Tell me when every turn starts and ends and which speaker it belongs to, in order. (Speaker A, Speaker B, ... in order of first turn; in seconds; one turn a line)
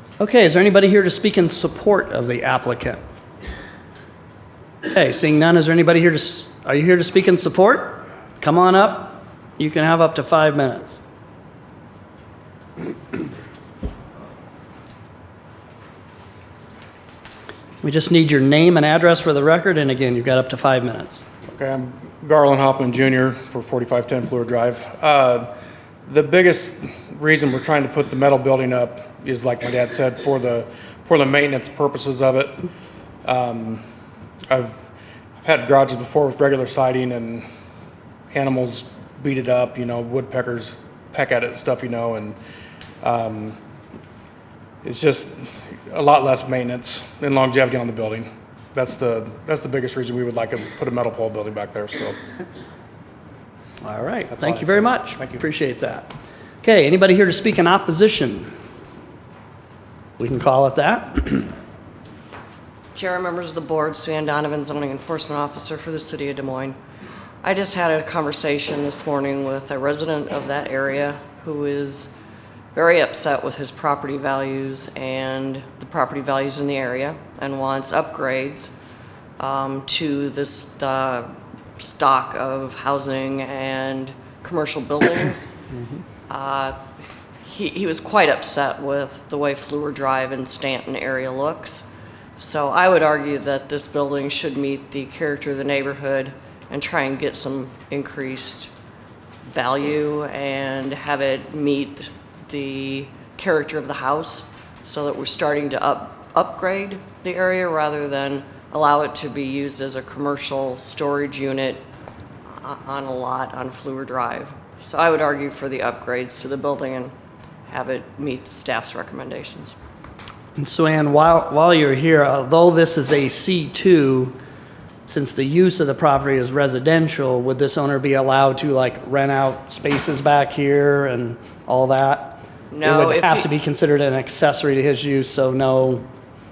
Speaker A: 0.2-3.0
Speaker A: 4.9-11.0
Speaker A: 17.8-21.3
Speaker B: 21.5-25.5
Speaker B: 26.1-32.7
Speaker B: 33.2-33.8
Speaker B: 34.5-34.8
Speaker B: 35.4-37.5
Speaker B: 38.3-42.4
Speaker B: 43.0-43.6
Speaker B: 44.8-52.2
Speaker A: 53.8-56.1
Speaker B: 54.3-55.4
Speaker A: 56.6-58.5
Speaker A: 60.2-61.5
Speaker C: 62.9-66.8
Speaker C: 67.4-72.1
Speaker C: 72.8-78.7
Speaker C: 79.4-85.5
Speaker C: 86.3-86.8
Speaker C: 87.4-91.8
Speaker C: 92.4-98.7
Speaker C: 99.5-111.8
Speaker C: 112.6-117.1
Speaker C: 117.7-119.8
Speaker A: 120.6-124.4
Speaker A: 125.1-136.1
Speaker C: 132.7-133.5